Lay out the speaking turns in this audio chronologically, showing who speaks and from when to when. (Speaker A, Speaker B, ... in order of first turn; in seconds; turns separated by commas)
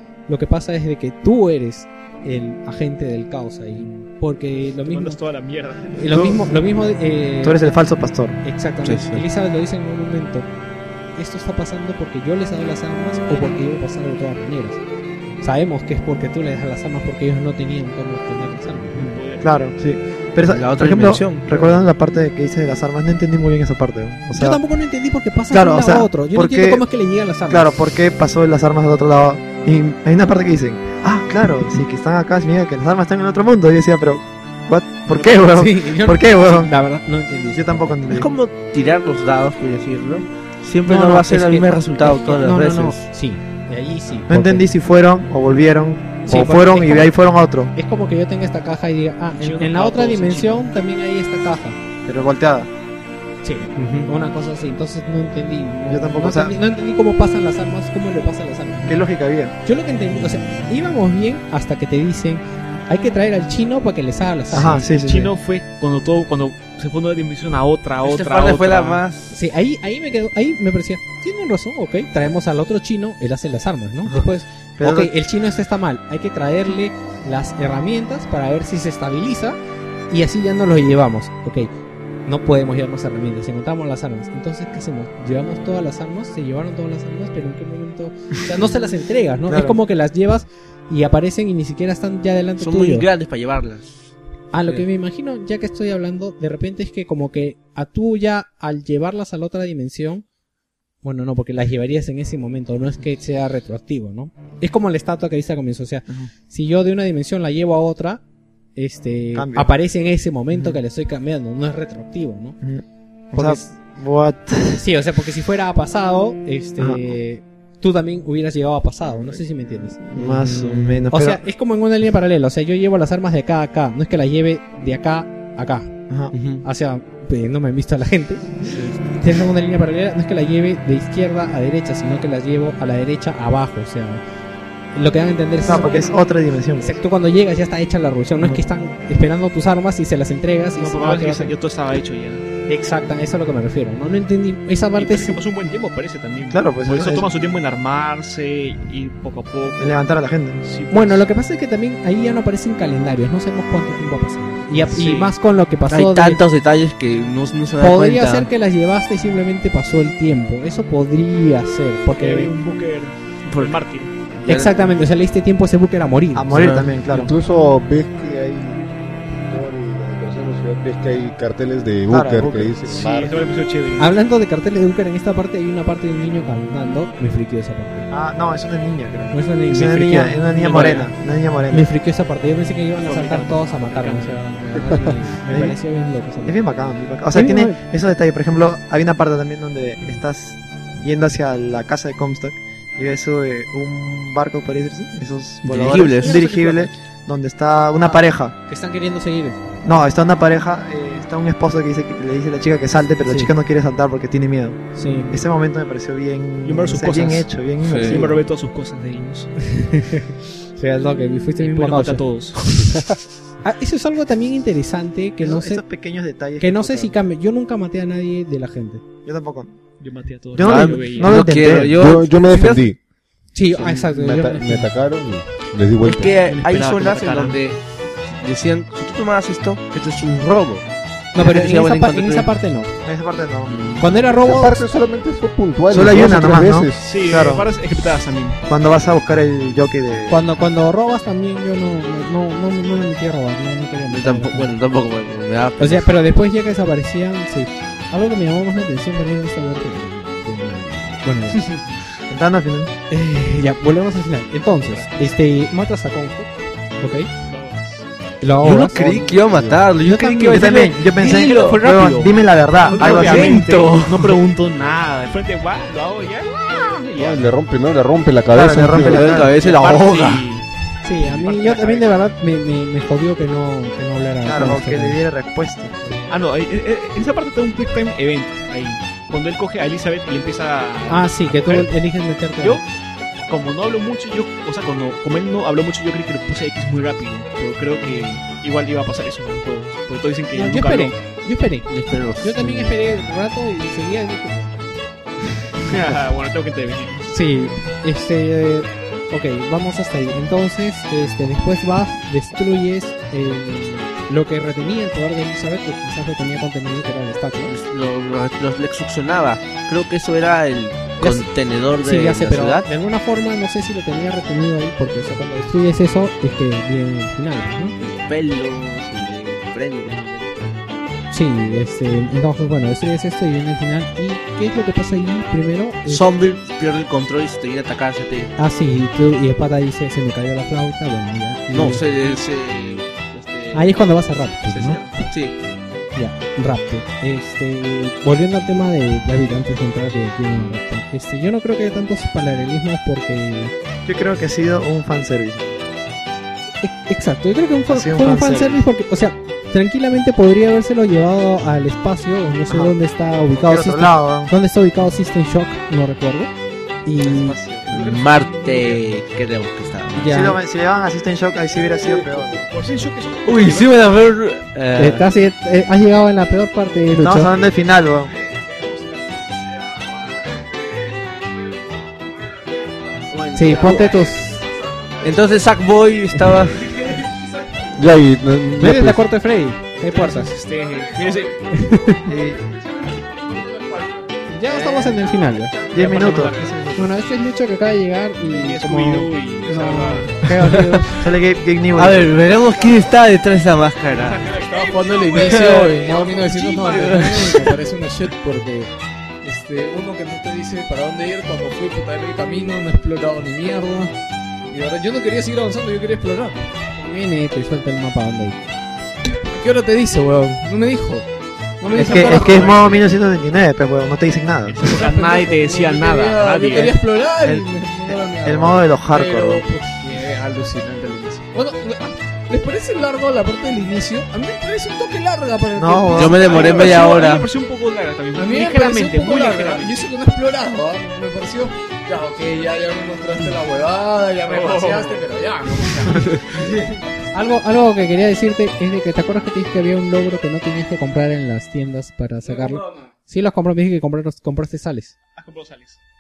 Speaker A: 0.3-5.2, Speaker B: 4.8-6.4, Speaker A: 6.0-7.8, Speaker C: 7.4-8.4, Speaker A: 8.4-10.5, Speaker D: 8.8-9.2, Speaker A: 11.2-14.8, Speaker A: 15.4-19.2, Speaker B: 18.9-19.5, Speaker C: 19.4-24.6, Speaker D: 20.5-21.8, Speaker A: 24.4-27.7, Speaker C: 25.5-26.9, Speaker C: 27.5-36.7, Speaker B: 35.1-35.4, Speaker A: 35.5-38.0, Speaker C: 37.5-38.3, Speaker D: 38.1-43.0, Speaker A: 40.9-44.7, Speaker C: 44.3-47.7, Speaker A: 46.2-47.1, Speaker A: 47.8-51.8, Speaker B: 49.4-50.7, Speaker C: 52.1-52.7, Speaker A: 53.4-59.0, Speaker D: 53.8-54.1, Speaker C: 55.9-56.5, Speaker C: 58.9-59.5, Speaker A: 59.6-64.9, Speaker C: 64.5-65.3, Speaker B: 64.6-69.0, Speaker D: 68.0-69.4, Speaker A: 69.3-79.6, Speaker C: 74.8-75.1, Speaker A: 80.1-81.7, Speaker A: 82.3-93.1, Speaker C: 89.5-89.8, Speaker D: 92.6-94.9, Speaker A: 94.5-100.2, Speaker A: 101.0-108.2, Speaker A: 108.8-112.6, Speaker C: 109.3-109.7, Speaker C: 110.5-110.8, Speaker C: 112.6-114.8, Speaker A: 113.3-113.7, Speaker A: 114.8-120.0, Speaker C: 116.8-117.1, Speaker C: 119.1-119.4, Speaker C: 120.0-121.4, Speaker D: 120.2-121.0, Speaker A: 121.1-125.9, Speaker D: 126.3-126.7, Speaker A: 126.6-134.2, Speaker D: 128.7-129.0, Speaker A: 134.9-136.1, Speaker C: 135.6-136.9, Speaker A: 136.8-141.5, Speaker B: 140.8-142.5, Speaker A: 142.7-145.4, Speaker B: 145.0-150.0, Speaker C: 146.5-147.3, Speaker C: 149.8-150.6, Speaker B: 150.6-151.2, Speaker A: 150.9-156.4, Speaker B: 154.9-155.3, Speaker D: 155.9-158.5, Speaker A: 157.8-162.5, Speaker B: 162.2-164.1, Speaker D: 163.5-163.8, Speaker D: 164.4-164.9, Speaker A: 164.4-166.7, Speaker C: 166.3-167.3, Speaker D: 166.5-166.9, Speaker E: 167.1-173.3, Speaker C: 172.1-172.8, Speaker B: 172.9-174.2, Speaker A: 174.0-178.1, Speaker C: 178.1-181.9, Speaker A: 179.3-181.1, Speaker B: 180.7-181.1, Speaker A: 181.7-186.6, Speaker B: 183.0-184.4, Speaker E: 184.8-185.1, Speaker C: 185.5-185.8, Speaker C: 186.4-198.6, Speaker A: 187.3-187.8, Speaker D: 195.6-196.5, Speaker A: 196.2-196.9, Speaker A: 198.0-199.6, Speaker C: 199.8-208.4, Speaker A: 203.2-203.5, Speaker A: 204.9-205.4, Speaker B: 206.6-209.5, Speaker D: 207.9-208.2, Speaker A: 209.7-213.0, Speaker B: 211.6-212.6, Speaker A: 213.6-215.8, Speaker C: 215.4-217.2, Speaker A: 216.6-219.0, Speaker C: 219.2-219.8, Speaker B: 220.0-221.5, Speaker C: 220.6-222.0, Speaker D: 220.6-222.9, Speaker E: 221.7-223.0, Speaker A: 223.5-224.9, Speaker E: 223.8-226.4, Speaker D: 226.0-232.6, Speaker B: 226.5-227.6, Speaker A: 231.3-232.9, Speaker C: 233.1-233.8, Speaker D: 233.7-234.1, Speaker A: 234.0-234.9, Speaker E: 234.4-237.3, Speaker C: 235.9-237.7, Speaker B: 237.0-238.6, Speaker C: 238.7-240.4, Speaker A: 240.3-244.8, Speaker D: 244.1-246.2, Speaker A: 245.8-251.8, Speaker C: 252.3-252.9, Speaker A: 253.1-257.3, Speaker B: 254.8-255.3, Speaker B: 257.5-258.1, Speaker A: 258.4-259.1, Speaker D: 258.6-262.0, Speaker E: 259.3-259.9, Speaker A: 260.0-260.7, Speaker C: 260.5-263.7, Speaker B: 261.2-267.4, Speaker D: 262.9-264.4, Speaker E: 267.2-269.5, Speaker C: 268.5-269.6, Speaker D: 268.9-270.5, Speaker B: 269.6-270.7, Speaker A: 271.0-275.2, Speaker B: 271.2-272.2, Speaker C: 274.4-276.0, Speaker B: 276.3-281.9, Speaker A: 281.1-282.8, Speaker B: 283.5-291.2, Speaker A: 290.5-294.8, Speaker D: 291.9-293.0, Speaker B: 295.9-297.3, Speaker A: 297.3-307.7, Speaker D: 307.7-312.9, Speaker A: 311.2-311.5, Speaker A: 312.0-317.9, Speaker D: 318.0-320.8, Speaker A: 321.3-326.3, Speaker D: 326.1-328.5, Speaker A: 328.6-332.0, Speaker D: 331.7-334.0, Speaker A: 333.7-335.0, Speaker D: 334.7-335.6, Speaker A: 336.1-343.7, Speaker C: 344.1-345.8, Speaker A: 346.8-356.5, Speaker C: 347.9-348.8, Speaker C: 352.7-353.0, Speaker C: 353.5-354.5, Speaker A: 357.1-357.6, Speaker C: 357.2-358.0, Speaker B: 357.9-359.0, Speaker D: 357.9-360.3, Speaker A: 360.1-360.6, Speaker C: 360.3-362.6, Speaker E: 361.7-362.7, Speaker B: 362.7-364.0, Speaker D: 363.5-365.3, Speaker A: 365.0-367.6, Speaker C: 367.2-368.4, Speaker F: 368.5-375.7, Speaker D: 373.3-374.1, Speaker A: 373.5-374.6, Speaker D: 375.2-377.0, Speaker F: 376.9-377.9, Speaker E: 378.0-379.2, Speaker A: 378.8-380.5, Speaker B: 380.0-381.6, Speaker F: 380.8-381.6, Speaker A: 381.7-382.2, Speaker C: 382.3-382.6, Speaker F: 382.6-384.4, Speaker A: 384.5-385.8, Speaker F: 385.5-386.5, Speaker B: 385.9-387.0, Speaker C: 385.9-387.0, Speaker A: 386.9-391.3, Speaker B: 388.5-390.5, Speaker D: 390.5-391.1, Speaker C: 391.2-392.5, Speaker D: 391.9-394.6, Speaker B: 394.1-396.5, Speaker F: 394.5-398.9, Speaker D: 395.3-397.8, Speaker F: 399.4-404.1, Speaker F: 404.7-406.7, Speaker A: 407.0-408.7, Speaker F: 409.5-411.3, Speaker F: 411.8-413.0, Speaker C: 411.9-414.9, Speaker B: 412.1-412.9, Speaker B: 414.7-417.0, Speaker F: 414.9-427.0, Speaker C: 417.4-419.7, Speaker C: 425.8-427.0, Speaker D: 426.1-427.5, Speaker B: 426.4-430.1, Speaker F: 428.4-437.0, Speaker B: 434.5-435.3, Speaker A: 437.3-445.1, Speaker F: 442.4-443.1, Speaker B: 445.4-446.0